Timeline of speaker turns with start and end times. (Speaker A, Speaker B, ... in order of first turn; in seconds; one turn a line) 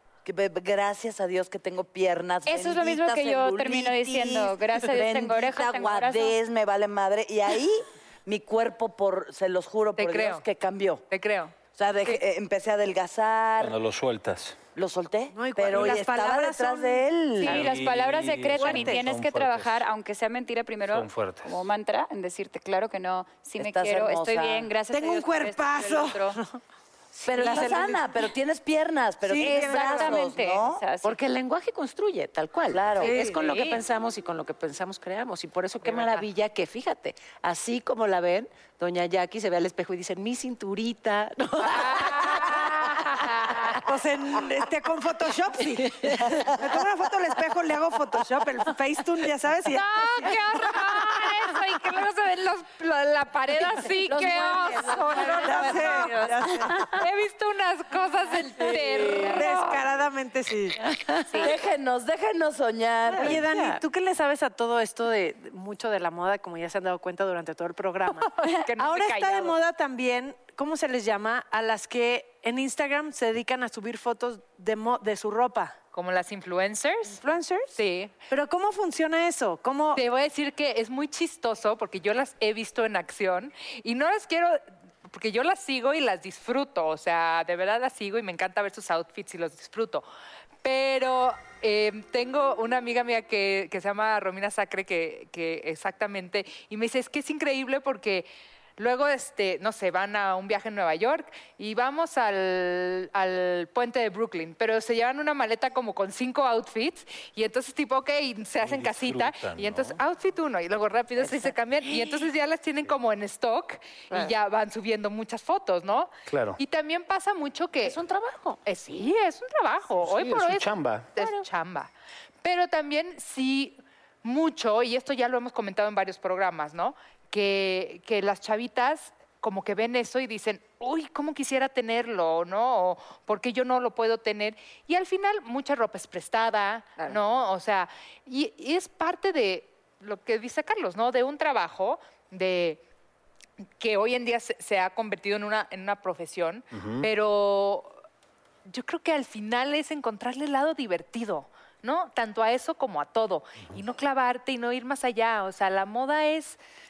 Speaker A: 0.2-11.0
Speaker B: 2.5-6.4
Speaker C: 10.0-10.4
Speaker C: 11.1-11.5
Speaker A: 11.8-13.8
Speaker D: 13.6-14.6
Speaker A: 14.8-17.7
Speaker E: 15.3-17.1
Speaker B: 17.4-26.4
Speaker D: 17.4-19.9
Speaker E: 18.6-19.1
Speaker D: 20.9-21.6
Speaker A: 23.6-24.7
Speaker E: 24.9-26.6
Speaker E: 27.1-28.2
Speaker A: 27.3-30.8
Speaker E: 29.2-30.2
Speaker B: 29.4-31.2
Speaker F: 31.0-43.4
Speaker A: 32.7-33.1
Speaker C: 33.0-33.8
Speaker C: 35.8-36.2
Speaker C: 41.6-43.8
Speaker E: 43.8-50.4
Speaker F: 45.7-46.6
Speaker C: 49.7-56.3
Speaker B: 54.1-56.5
Speaker E: 55.3-57.0
Speaker C: 56.9-59.8
Speaker E: 59.1-60.8
Speaker A: 61.3-63.8
Speaker E: 63.1-75.8
Speaker C: 68.4-69.6
Speaker C: 75.9-77.2
Speaker E: 77.1-80.0
Speaker C: 77.8-78.1
Speaker C: 79.9-90.0
Speaker C: 90.6-118.0
Speaker D: 108.6-110.0
Speaker F: 111.9-112.2
Speaker D: 116.3-116.6
Speaker F: 117.8-118.6
Speaker C: 118.7-121.9
Speaker D: 120.0-121.1
Speaker F: 121.2-121.4
Speaker C: 122.4-142.8
Speaker C: 143.8-148.0
Speaker D: 146.7-147.1
Speaker C: 148.7-156.6